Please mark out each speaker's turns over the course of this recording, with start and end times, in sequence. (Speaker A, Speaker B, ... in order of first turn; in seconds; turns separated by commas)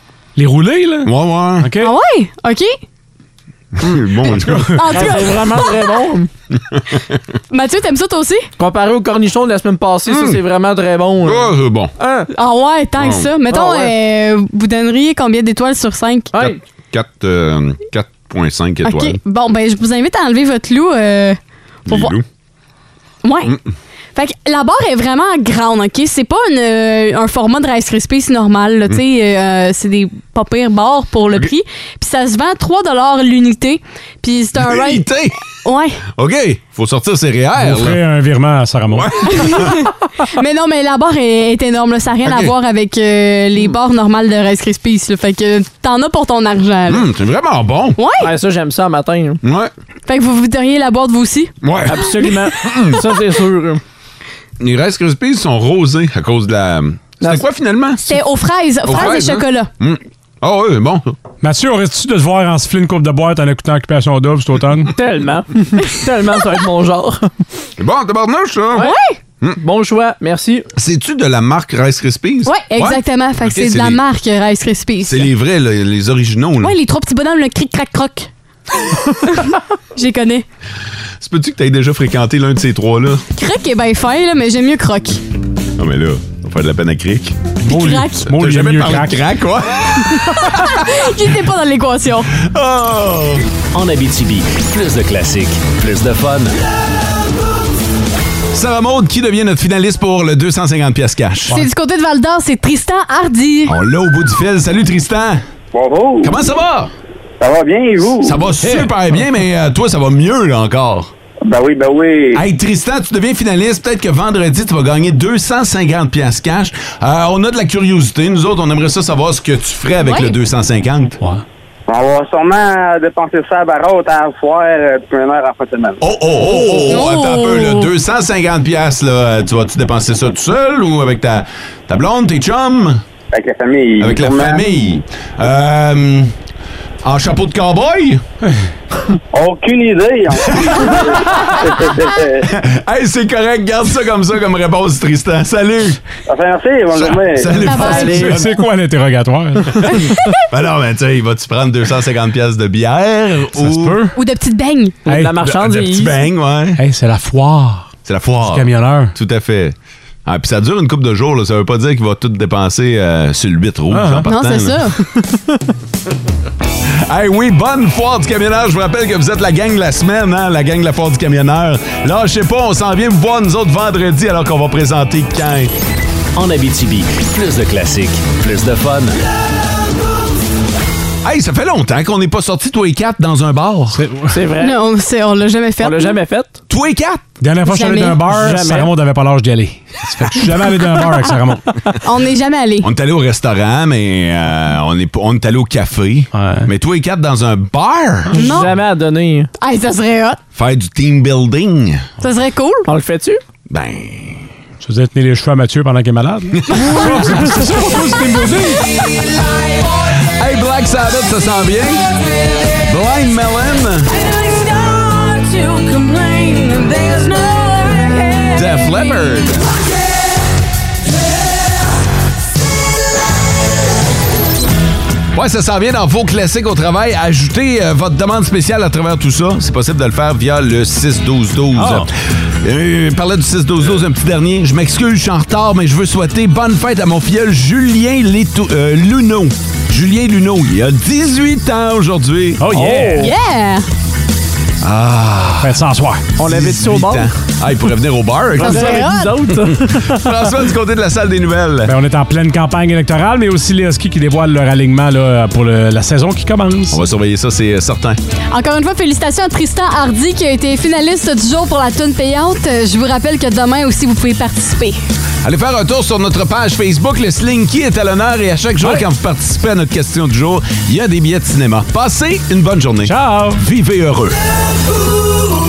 Speaker A: 0.3-1.9, Speaker B: 1.0-1.7, Speaker C: 1.8-2.8, Speaker B: 3.8-5.1, Speaker C: 4.2-5.8, Speaker A: 4.3-4.9, Speaker D: 4.9-6.3, Speaker B: 6.5-7.2, Speaker C: 7.5-8.5, Speaker D: 8.6-12.3, Speaker B: 10.1-10.4, Speaker B: 11.2-11.9, Speaker C: 12.3-16.3, Speaker B: 13.0-13.3, Speaker D: 13.5-13.9, Speaker D: 16.3-16.6, Speaker B: 16.4-19.2, Speaker C: 18.8-22.1, Speaker B: 21.9-22.2, Speaker C: 23.2-23.6, Speaker C: 24.1-35.0, Speaker B: 34.5-35.4, Speaker C: 35.6-36.0, Speaker B: 36.1-38.0, Speaker A: 37.6-39.1, Speaker B: 38.9-39.8, Speaker C: 39.3-47.0, Speaker B: 42.2-42.5, Speaker B: 46.9-48.0, Speaker C: 48.0-48.3, Speaker D: 48.2-49.4, Speaker B: 49.4-49.7, Speaker C: 50.0-51.5, Speaker B: 51.6-53.0, Speaker D: 51.9-53.8, Speaker B: 54.6-58.1, Speaker C: 58.0-59.7, Speaker B: 58.8-61.1, Speaker A: 61.4-64.9, Speaker D: 65.0-67.3, Speaker B: 67.8-68.9, Speaker C: 68.8-69.2, Speaker D: 69.6-70.6, Speaker B: 70.8-74.0, Speaker C: 72.5-75.3, Speaker B: 75.0-76.7, Speaker C: 76.6-78.3, Speaker C: 79.2-80.4, Speaker B: 81.2-83.2, Speaker C: 83.3-85.2, Speaker B: 85.8-87.5, Speaker A: 87.6-89.2, Speaker C: 87.7-88.3, Speaker B: 88.3-91.0, Speaker C: 90.0-92.3, Speaker B: 92.4-93.5, Speaker E: 93.7-96.6, Speaker B: 98.5-101.6, Speaker C: 101.5-103.7, Speaker B: 103.7-105.4, Speaker F: 105.7-106.3, Speaker B: 106.2-106.9, Speaker F: 107.4-108.4, Speaker B: 108.2-111.1, Speaker A: 108.6-108.9, Speaker F: 111.5-112.4, Speaker B: 112.3-121.2, Speaker C: 120.0-120.3, Speaker F: 121.9-126.0, Speaker B: 126.0-133.0, Speaker C: 126.8-127.9, Speaker F: 133.3-134.7, Speaker B: 134.0-136.3, Speaker B: 137.0-138.2, Speaker F: 139.3-142.4, Speaker B: 140.4-141.6, Speaker B: 142.4-146.0, Speaker F: 146.3-147.5, Speaker B: 146.9-148.6, Speaker C: 147.6-148.3, Speaker D: 147.8-148.4, Speaker A: 148.2-150.0, Speaker C: 149.9-150.4, Speaker B: 150.5-154.0, Speaker A: 153.5-154.1, Speaker C: 154.1-154.9, Speaker D: 155.1-156.1, Speaker B: 155.4-156.8, Speaker A: 156.8-157.9, Speaker B: 158.0-164.8, Speaker A: 158.4-159.1, Speaker A: 163.9-164.2, Speaker C: 164.2-165.0, Speaker B: 167.1-175.7, Speaker E: 176.3-179.2, Speaker B: 181.2-184.0, Speaker A: 183.9-184.3, Speaker D: 184.3-184.8, Speaker C: 184.6-186.2, Speaker D: 185.8-186.6, Speaker B: 186.7-187.2, Speaker A: 187.4-191.8, Speaker C: 187.7-188.3, Speaker D: 188.3-188.9, Speaker C: 192.0-192.9, Speaker B: 192.8-198.4, Speaker A: 196.3-196.7, Speaker C: 198.3-198.7, Speaker D: 198.3-199.5, Speaker C: 199.6-200.4, Speaker B: 200.5-202.0, Speaker C: 202.2-202.9, Speaker D: 202.9-203.4, Speaker B: 203.7-204.5, Speaker A: 204.8-208.8, Speaker B: 206.6-207.5, Speaker C: 206.8-207.0, Speaker B: 210.3-212.1, Speaker B: 212.8-214.1, Speaker C: 214.3-219.1, Speaker B: 218.5-219.7, Speaker B: 225.3-232.1, Speaker A: 231.7-232.1, Speaker B: 232.6-242.7, Speaker A: 242.6-243.3, Speaker D: 242.7-243.3, Speaker C: 243.2-243.8, Speaker B: 244.8-245.8, Speaker A: 245.6-246.2, Speaker D: 246.4-247.3, Speaker B: 246.4-251.9, Speaker C: 248.6-249.3, Speaker D: 248.6-250.3, Speaker A: 251.8-257.0, Speaker B: 256.9-258.2, Speaker C: 258.5-265.0, Speaker B: 265.4-274.4, Speaker A: 273.0-273.6